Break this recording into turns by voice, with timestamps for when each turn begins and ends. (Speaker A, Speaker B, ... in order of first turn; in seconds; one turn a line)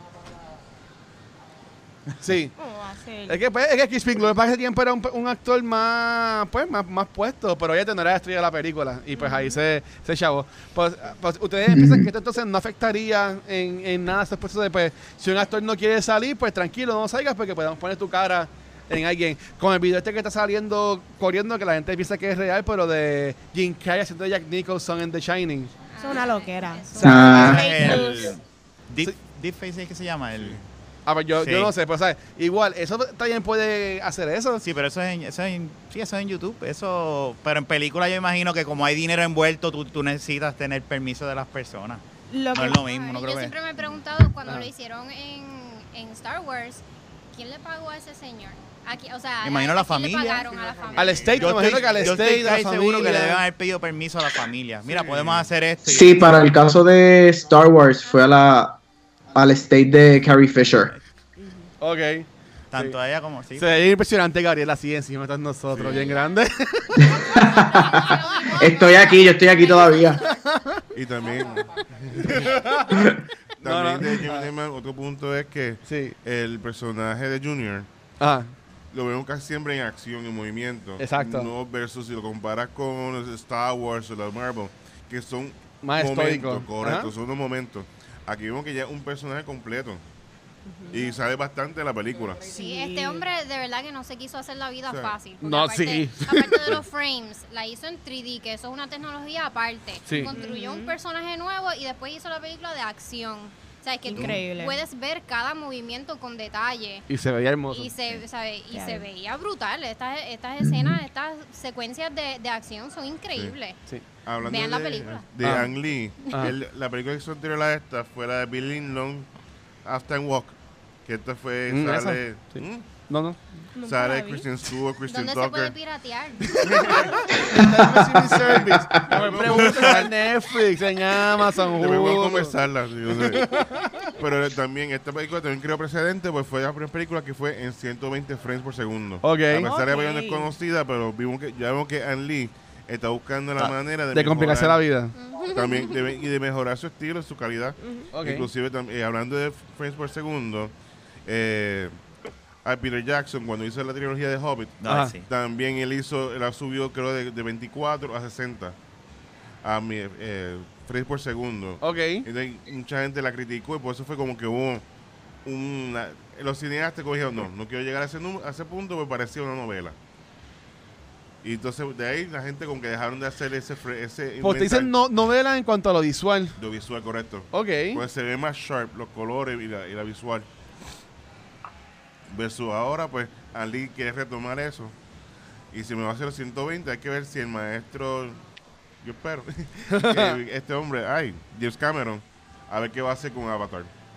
Speaker A: 2.2-2.5
Speaker B: 2.6-3.4
Speaker A: 3.3-25.7
Speaker B: 9.2-9.6
Speaker C: 11.7-12.1
Speaker D: 25.9-28.3
Speaker B: 26.0-28.3
Speaker A: 27.0-27.6
Speaker C: 27.0-28.0
Speaker E: 27.1-30.6
Speaker F: 30.4-30.6
Speaker A: 31.1-34.6
Speaker E: 31.4-31.7
Speaker E: 34.6-42.0
Speaker B: 42.3-42.8
Speaker E: 42.5-43.5
Speaker D: 42.8-51.8
Speaker E: 49.4-50.5
Speaker F: 50.5-52.4
Speaker A: 51.0-53.4
Speaker E: 51.4-56.4
Speaker A: 54.9-55.3
Speaker C: 55.8-58.8
Speaker C: 59.3-60.9
Speaker B: 61.4-61.7
Speaker A: 61.8-62.9
Speaker E: 62.7-63.7
Speaker A: 63.6-67.2
Speaker F: 65.7-66.1
Speaker D: 65.9-66.4
Speaker C: 67.0-70.2
Speaker D: 67.2-70.4
Speaker A: 70.4-70.8
Speaker F: 70.9-72.5
Speaker D: 71.2-72.5
Speaker A: 72.2-74.5
Speaker C: 72.9-73.2
Speaker F: 73.6-77.9
Speaker A: 75.9-76.2
Speaker A: 78.2-78.5
Speaker F: 78.9-90.0
Speaker A: 81.0-81.5
Speaker A: 85.8-87.1
Speaker B: 90.7-91.1
Speaker F: 90.9-92.5
Speaker D: 92.5-107.0
Speaker B: 92.5-93.2
Speaker F: 94.9-95.1
Speaker A: 95.4-96.8
Speaker A: 100.1-100.3
Speaker B: 100.1-101.0
Speaker B: 104.1-104.8
Speaker F: 104.1-104.4
Speaker A: 107.1-107.9
Speaker D: 107.7-113.8
Speaker B: 108.7-109.0
Speaker C: 110.6-111.0
Speaker F: 114.2-119.3
Speaker D: 114.4-115.3
Speaker A: 115.4-115.7
Speaker A: 116.3-116.5
Speaker F: 119.8-123.0
Speaker A: 121.7-123.6
Speaker B: 123.7-124.5
Speaker F: 123.8-125.7
Speaker D: 125.1-127.1
Speaker A: 126.5-126.8
Speaker F: 126.6-127.4
Speaker A: 127.3-132.5
Speaker C: 127.6-129.2
Speaker F: 128.4-130.2
Speaker E: 129.6-130.0
Speaker F: 131.8-133.5
Speaker A: 133.1-134.1
Speaker F: 134.2-144.8
Speaker A: 139.2-139.7
Speaker B: 139.6-140.5
Speaker A: 144.1-145.1
Speaker D: 145.1-146.2
Speaker F: 145.5-150.7
Speaker B: 147.8-148.1
Speaker A: 148.1-148.5
Speaker F: 151.3-152.0
Speaker F: 152.6-158.8
Speaker E: 154.8-155.2
Speaker A: 154.9-155.1
Speaker F: 159.6-164.8
Speaker A: 161.8-162.3
Speaker F: 165.4-169.9
Speaker F: 171.4-174.9
Speaker A: 174.4-176.6
Speaker F: 176.6-180.5
Speaker A: 177.5-178.0
Speaker F: 182.3-184.9
Speaker F: 185.7-188.4
Speaker F: 189.0-193.9
Speaker A: 189.9-190.4